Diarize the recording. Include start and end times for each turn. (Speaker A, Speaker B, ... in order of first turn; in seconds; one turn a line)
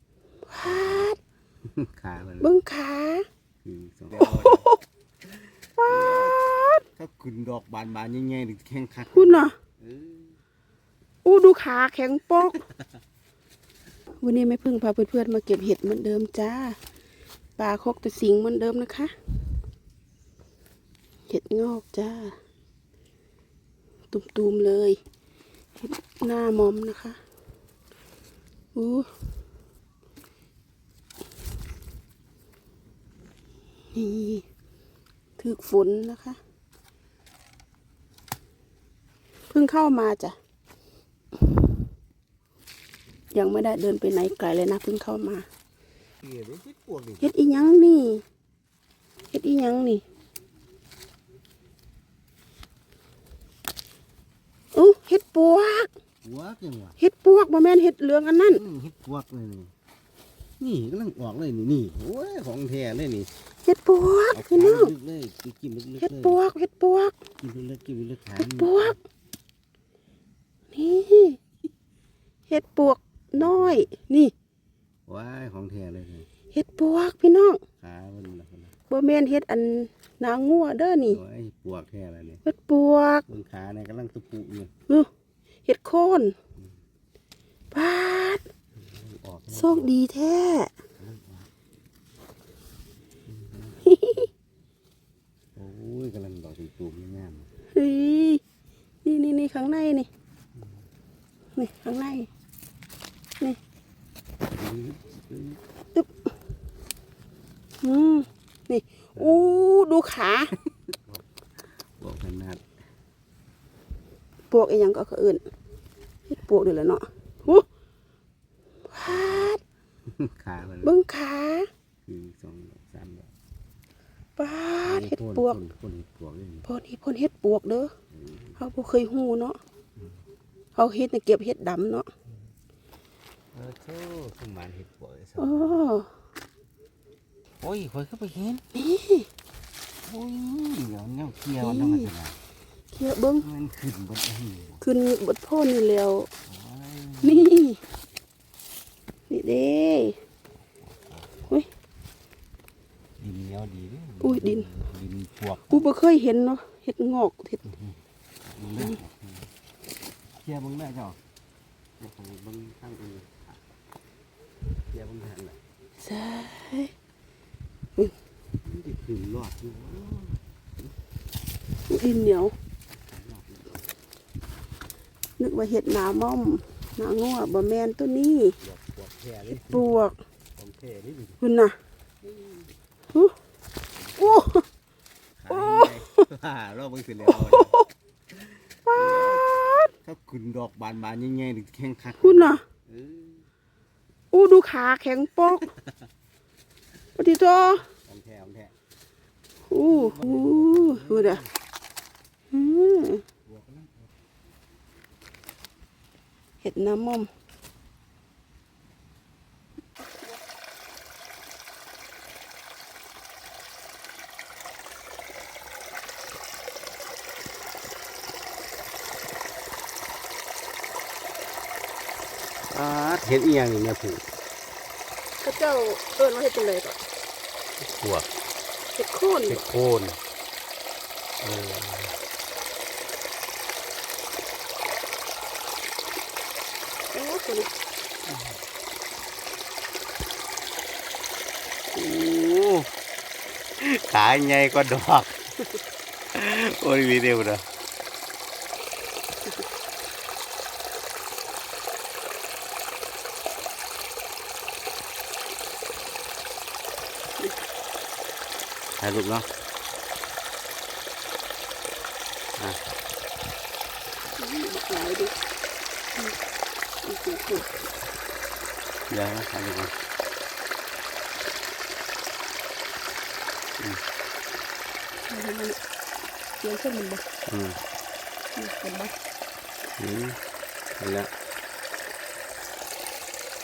Speaker A: 0.5-1.2
Speaker B: 0.6-1.1
Speaker B: 1.6-2.5
Speaker A: 2.4-3.2
Speaker B: 3.6-4.7
Speaker A: 4.2-4.8
Speaker B: 5.2-10.4
Speaker A: 5.8-6.8
Speaker A: 9.1-9.5
Speaker A: 11.2-12.6
Speaker B: 12.5-12.8
Speaker A: 14.2-16.8
Speaker A: 17.6-19.1
Speaker A: 21.3-22.4
Speaker A: 24.1-25.0
Speaker A: 25.8-27.2
Speaker A: 28.8-29.1
Speaker A: 33.9-34.5
Speaker A: 35.4-36.4
Speaker A: 39.5-40.4
Speaker A: 43.3-45.5
Speaker B: 46.2-47.3
Speaker A: 47.2-48.2
Speaker A: 49.3-50.0
Speaker A: 54.7-55.9
Speaker B: 56.2-57.0
Speaker A: 57.0-58.6
Speaker B: 58.5-59.7
Speaker B: 60.6-63.3
Speaker A: 63.6-64.9
Speaker B: 64.3-66.4
Speaker A: 66.0-67.2
Speaker B: 67.4-69.0
Speaker A: 68.4-69.0
Speaker A: 70.7-71.4
Speaker A: 72.5-74.3
Speaker B: 73.3-73.9
Speaker B: 75.1-76.3
Speaker A: 76.5-77.6
Speaker B: 77.8-78.7
Speaker A: 78.9-81.2
Speaker B: 81.1-82.4
Speaker A: 82.5-83.2
Speaker B: 83.3-84.7
Speaker A: 85.7-86.3
Speaker A: 87.7-88.4
Speaker B: 88.8-89.9
Speaker A: 89.5-90.7
Speaker B: 91.0-91.5
Speaker B: 93.3-94.0
Speaker A: 93.8-94.3
Speaker B: 95.6-97.5
Speaker A: 97.7-98.4
Speaker A: 99.0-100.1
Speaker A: 101.6-102.3
Speaker B: 104.5-105.6
Speaker A: 107.8-110.5
Speaker B: 109.2-109.6
Speaker B: 110.6-111.3
Speaker B: 112.0-112.6
Speaker A: 114.5-115.4
Speaker A: 116.3-117.7
Speaker A: 118.9-119.6
Speaker B: 119.1-119.5
Speaker B: 120.1-121.0
Speaker A: 120.8-121.7
Speaker B: 122.0-123.3
Speaker A: 124.4-125.6
Speaker B: 124.8-126.7
Speaker A: 126.7-127.9
Speaker B: 128.1-128.6
Speaker A: 128.6-129.6
Speaker A: 130.8-132.1
Speaker B: 133.5-135.8
Speaker A: 135.4-136.1
Speaker B: 137.6-138.6
Speaker A: 138.8-139.3
Speaker B: 140.0-142.4
Speaker A: 141.6-142.1
Speaker A: 142.9-143.4
Speaker B: 143.4-144.8
Speaker A: 144.8-146.3
Speaker B: 146.5-147.5
Speaker A: 147.2-147.8
Speaker A: 149.3-150.2
Speaker B: 153.2-155.8
Speaker A: 154.2-154.7
Speaker A: 155.7-157.6
Speaker B: 157.6-159.5
Speaker B: 160.4-161.2
Speaker B: 162.0-163.6
Speaker B: 164.9-165.6
Speaker A: 166.0-166.9
Speaker B: 168.6-170.4
Speaker A: 171.9-172.6
Speaker B: 172.9-173.8
Speaker A: 175.4-178.6
Speaker B: 178.6-179.9
Speaker A: 179.5-180.2
Speaker B: 180.6-181.4
Speaker A: 181.4-181.8
Speaker B: 182.2-182.7
Speaker B: 183.9-184.6
Speaker A: 184.2-184.6
Speaker B: 185.4-187.8
Speaker A: 185.5-186.2
Speaker A: 187.3-187.8
Speaker B: 188.4-193.5
Speaker A: 189.5-189.9
Speaker A: 192.2-192.6
Speaker A: 194.3-195.7
Speaker B: 195.6-195.9
Speaker A: 197.2-197.9
Speaker B: 198.0-198.8
Speaker A: 199.7-201.4
Speaker B: 199.8-201.5
Speaker A: 202.5-203.2
Speaker B: 203.4-204.1
Speaker A: 206.6-207.3
Speaker B: 222.7-224.3
Speaker A: 225.4-227.0
Speaker B: 227.8-228.3
Speaker A: 229.0-229.6
Speaker B: 229.5-230.2
Speaker B: 231.4-232.2
Speaker A: 237.1-237.7
Speaker B: 238.2-238.6
Speaker B: 241.9-242.9
Speaker B: 243.8-245.8
Speaker B: 246.3-247.7
Speaker B: 259.0-259.5
Speaker B: 262.6-262.8
Speaker A: 264.4-265.3
Speaker A: 267.0-267.7
Speaker B: 269.1-269.9
Speaker A: 275.3-275.8
Speaker A: 276.6-277.2
Speaker B: 277.4-277.8
Speaker A: 278.6-279.1
Speaker B: 280.0-280.4
Speaker B: 280.9-281.3